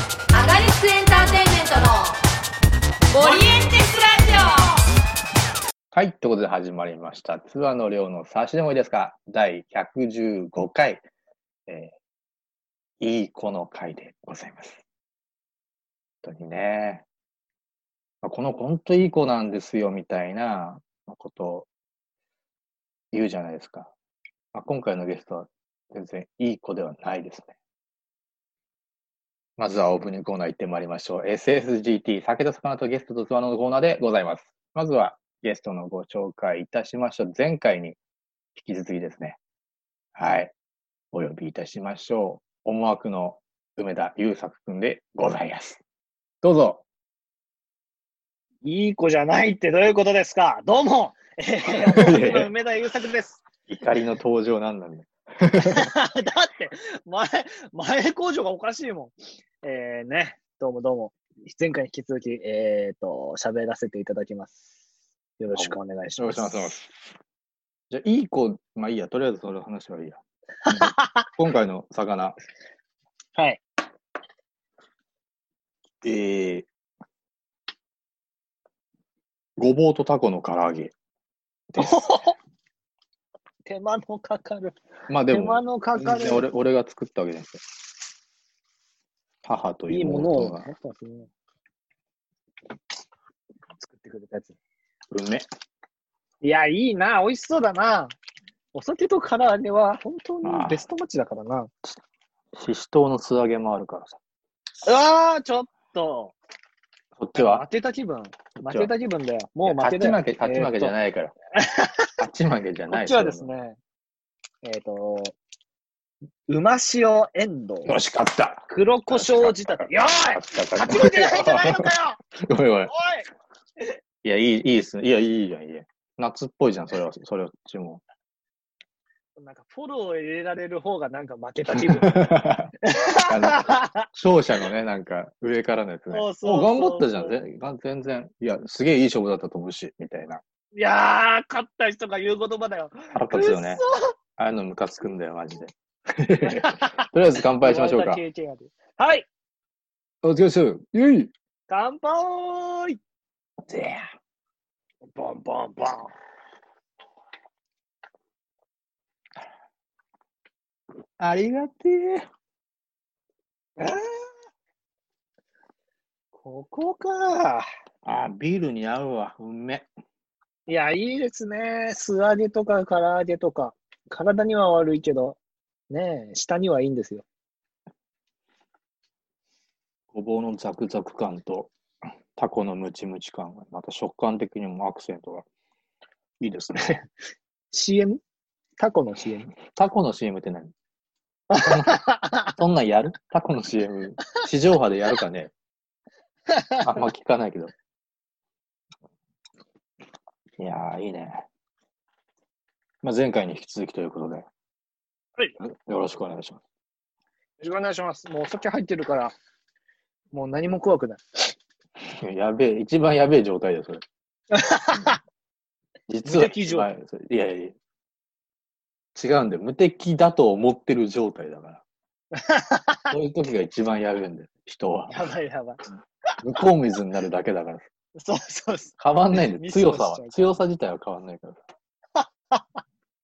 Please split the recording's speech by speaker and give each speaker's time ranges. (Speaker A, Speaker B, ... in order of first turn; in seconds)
Speaker A: 0.3-2.2, 3.1-4.8
Speaker B: 5.9-11.0, 11.7-11.9, 13.0-14.8, 16.2-17.1, 18.2-21.7, 23.1-23.9, 24.5-27.5, 29.6-38.0, 38.5-39.4, 40.1-40.5, 41.1-45.8, 46.4-46.8, 51.8-52.5, 53.7-55.9, 65.5-66.9, 67.9-72.4, 76.0-76.7, 79.6-80.9, 81.7-82.1, 85.1-87.6, 89.4-90.7, 95.1-95.5, 100.4-100.8, 102.5-104.2, 107.2-107.6, 109.6-111.3, 112.2-113.5, 117.8-122.9, 124.2-128.0, 131.7-132.7, 133.3-140.4, 143.1-143.8, 144.4-148.2, 150.2-151.3, 153.6-154.1, 161.2-162.3, 168.0-169.9, 180.1-181.7, 182.3-185.4, 186.4-187.0, 189.7-190.7, 191.5-195.5, 196.8-197.7, 200.6-201.4, 203.0-204.5, 205.6-206.6, 212.0-214.0, 216.1-217.8, 219.1-221.8, 223.1-225.2, 226.4-227.9, 229.0-231.6
Speaker C: 48.6-53.4, 55.6-64.7, 65.4-66.7, 70.7-71.3, 73.3-73.6, 81.8-82.4, 83.6-84.8, 85.3-86.5, 89.9-91.3, 93.8-94.6, 96.4-98.1, 98.7-101.7, 104.8-106.3, 107.3-110.9, 111.6-112.1, 112.9-113.8, 114.6-115.3, 116.5-117.9, 118.7-122.2, 122.9-123.3, 129.4-132.2, 132.8-134.1, 136.1-137.3, 140.7-144.1, 146.4-149.2, 151.7-153.0, 155.1-156.1, 163.8-164.3, 166.4-167.7, 170.7-175.4, 175.9-177.2, 187.7-188.2, 188.8-189.5, 191.5-192.4, 196.5-196.8, 207.6-209.3, 210.3-211.5, 214.5-215.2, 216.2-216.9, 222.3-223.1, 225.1-225.8, 228.2-230.6, 232.2-232.6